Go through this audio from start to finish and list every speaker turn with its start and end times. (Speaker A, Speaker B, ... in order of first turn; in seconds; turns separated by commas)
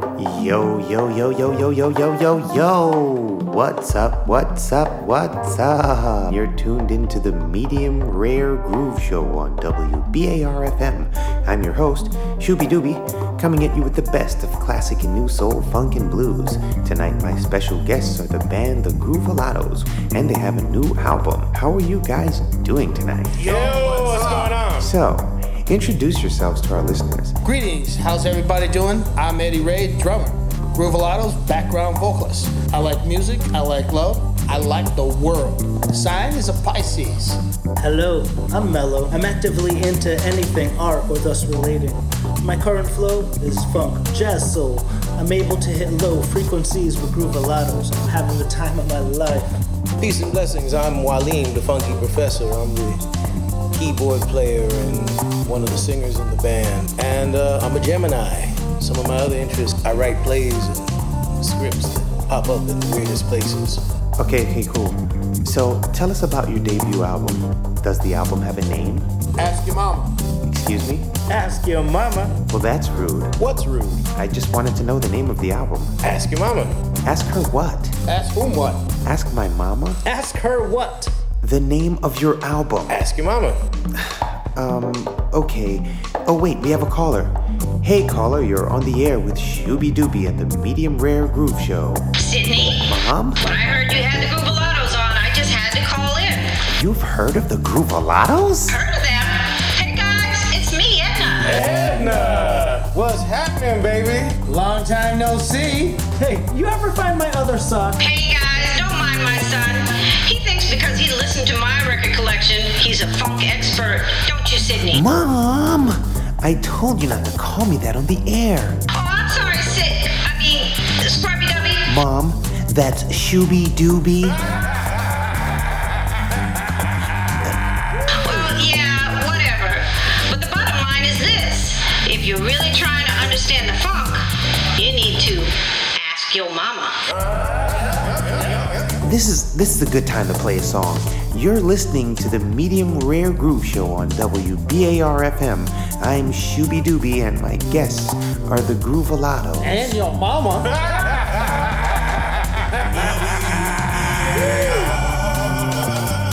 Speaker A: 0.1-23.6, Speaker B: 23.4-24.9, Speaker C: 23.6-24.2, Speaker A: 24.8-27.3, Speaker D: 27.4-37.4, Speaker E: 37.8-49.6, Speaker B: 50.0-53.0, Speaker B: 53.7-63.8, Speaker A: 64.2-69.1, Speaker D: 69.4-70.2, Speaker A: 70.5-71.1, Speaker E: 71.3-72.3, Speaker A: 72.5-73.3, Speaker B: 73.4-74.0, Speaker A: 74.1-76.0, Speaker B: 76.0-76.8, Speaker A: 77.0-77.9, Speaker D: 78.1-78.8, Speaker A: 79.0-80.0, Speaker D: 80.1-81.1, Speaker E: 80.5-80.9, Speaker A: 81.4-82.9, Speaker B: 82.9-83.5, Speaker A: 84.0-92.0, Speaker F: 92.2-96.5, Speaker A: 92.7-93.6, Speaker A: 96.7-98.8, Speaker F: 98.7-101.6, Speaker B: 101.4-104.4, Speaker E: 104.5-105.0, Speaker D: 104.8-106.0, Speaker E: 106.0-108.0, Speaker F: 108.0-115.1, Speaker A: 114.9-118.8, Speaker F: 118.9-121.9, Speaker A: 121.8-124.4, Speaker F: 128.1-134.2, Speaker F: 134.7-136.9, Speaker A: 139.0-150.0, Speaker D: 149.9-150.7, Speaker C: 152.9-156.0